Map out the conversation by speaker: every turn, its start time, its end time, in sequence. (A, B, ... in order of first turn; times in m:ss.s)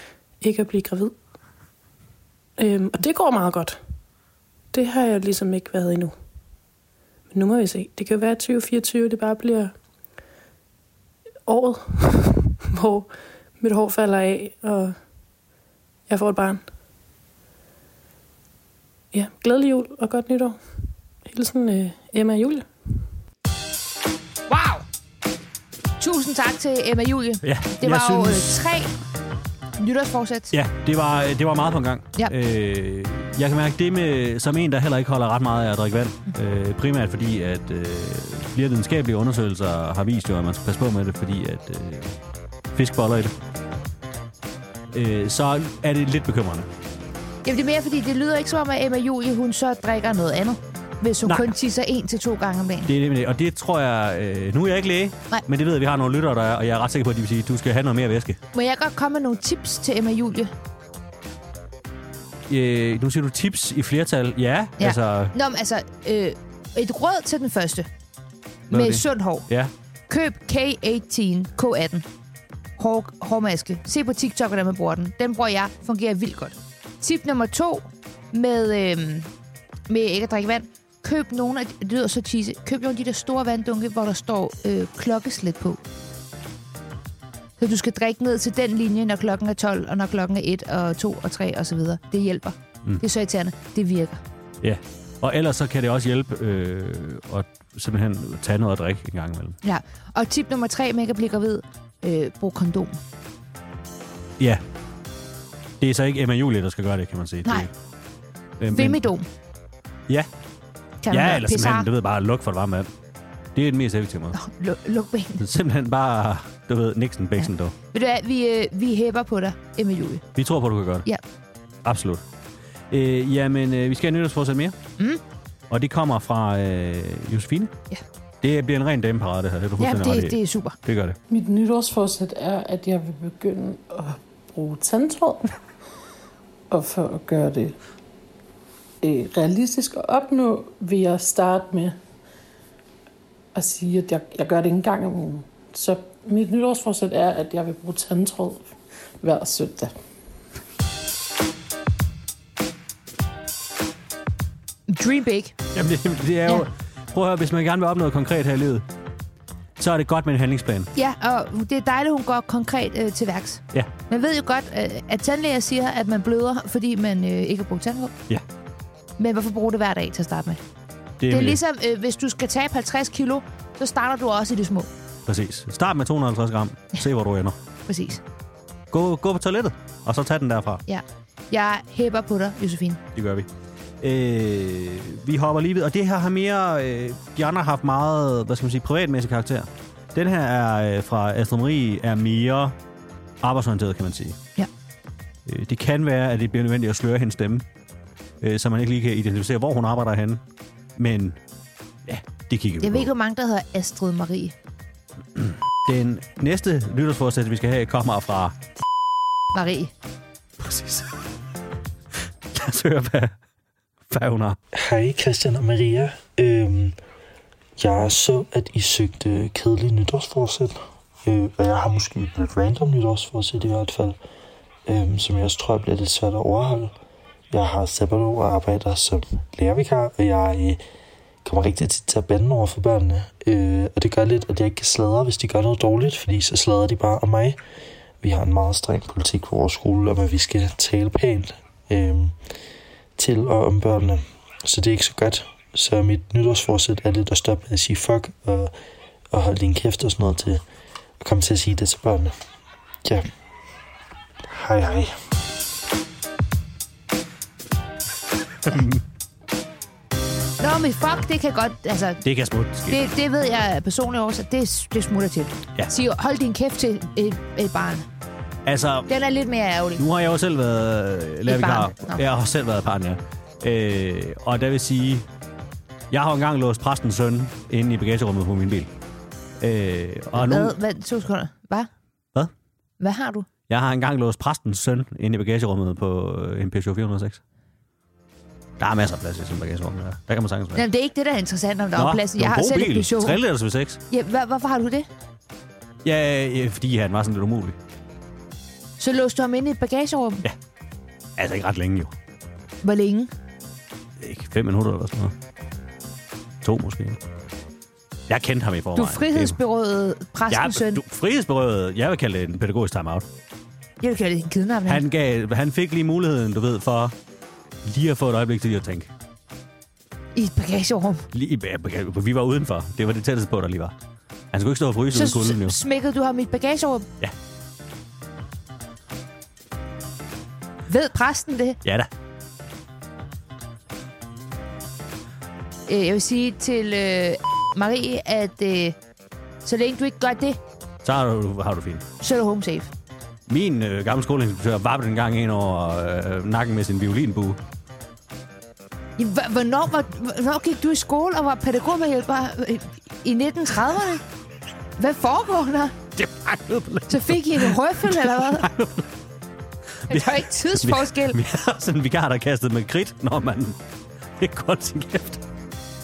0:00.4-0:01.2 A
0:02.6-0:03.8 A
0:04.7-0:06.2 A
0:07.3-0:09.7 A
0:11.5-0:15.0 A
0:16.1-0:16.6 A
0:19.1-0:20.6 A
0:21.2-0:22.7 A
0:24.5-0:24.8 B
0:26.0-0:29.0 B
0:27.4-0:28.6 C
0:29.8-0:30.5 B
0:30.5-0:42.2 C
0:42.7-0:43.3 C
0:44.9-0:46.7 C
0:47.4-0:52.9 B
0:51.2-0:51.5 C
0:52.8-0:58.4 C
0:58.5-1:00.5 B
1:02.5-1:05.3 C
1:04.8-1:07.9 B
1:08.7-1:09.5 B
1:08.7-1:09.7 C
1:10.1-1:12.0 B
1:12.8-1:19.3 B
1:19.9-1:25.8 B
1:27.6-1:34.2 B
1:34.6-1:39.6 C
1:39.6-1:43.0 B
1:45.8-1:47.7 C
1:48.6-1:49.1 C
1:48.7-1:49.3 B
1:51.0-1:51.9 B
1:51.1-1:52.9 C
1:53.6-1:54.4 C
1:54.3-1:55.4 B
1:55.4-1:57.8 C
1:57.4-2:00.2 B
2:00.4-2:01.1 C
2:01.8-2:02.2 C
2:02.9-2:04.8 C
2:05.7-2:07.7 C
2:08.4-2:11.2 C
2:09.8-2:10.8 B
2:11.3-2:15.6 D
2:16.7-2:17.8 D
2:19.0-2:22.0 D
2:23.6-2:29.9 D
2:34.9-2:35.6 B
2:35.7-2:38.9 C
2:39.8-2:40.9 C
2:40.9-2:48.1 B
2:49.2-2:50.6 B
2:51.2-2:51.6 C
2:51.3-2:54.9 B
2:55.3-2:57.6 C
2:57.9-2:58.2 B
2:58.9-3:00.8 C
3:00.9-3:03.0 B
3:03.2-3:03.5 C
3:04.0-3:12.8 C
3:13.4-3:14.4 C
3:15.5-3:17.7 C
3:18.4-3:20.4 C
3:21.0-3:21.4 C
3:22.1-3:23.1 C
3:22.8-3:24.6 B
3:25.4-3:28.6 C
3:29.5-3:29.9 B
3:30.6-3:31.1 C
3:32.5-3:33.4 C
3:34.1-3:34.6 C
3:34.7-3:37.0 E
3:37.8-3:44.2 E
3:44.9-3:46.9 E
3:47.5-3:50.8 E
3:51.4-3:57.6 E
3:58.2-4:02.4 E
4:03.2-4:08.7 E
4:09.3-4:10.6 E
4:11.2-4:12.4 E
4:13.0-4:13.3 E
4:14.5-4:15.2 E
4:18.6-4:19.0 C
4:20.6-4:22.2 B
4:22.2-4:23.1 C
4:22.9-4:28.1 B
4:28.6-4:29.1 C
4:29.1-4:30.0 B
4:30.0-4:35.3 C
4:31.5-4:32.2 B
4:36.1-4:38.9 C
4:39.6-4:40.8 C
4:40.4-4:41.9 B
4:43.0-4:43.5 B
4:43.7-4:47.4 C
4:48.8-4:50.8 C
4:50.8-4:53.4 B
4:52.0-4:54.0 C
4:54.1-4:55.1 B
4:56.0-4:57.8 C
4:59.0-5:00.4 B
5:01.4-5:02.1 C
5:02.8-5:03.3 B
5:04.2-5:05.3 C
5:06.6-5:07.2 C
5:08.3-5:09.6 C
5:09.0-5:11.0 B
5:10.5-5:13.3 C
5:14.0-5:15.0 B
5:14.9-5:17.2 C
5:17.8-5:19.1 C
5:20.4-5:21.3 B
5:21.3-5:24.0 C
5:24.5-5:25.8 C
5:25.1-5:27.1 B
5:30.9-5:31.8 B
5:31.8-5:32.1 C
5:35.9-5:39.0 B
5:39.6-5:40.6 B
5:41.0-5:42.0 C
5:42.2-5:42.9 B
5:43.5-5:47.6 C
5:49.2-5:54.2 B
5:55.0-5:56.0 B
5:56.2-5:59.1 C
5:57.1-5:58.7 B
6:00.1-6:03.8 C
6:00.1-6:01.4 B
6:04.4-6:05.4 C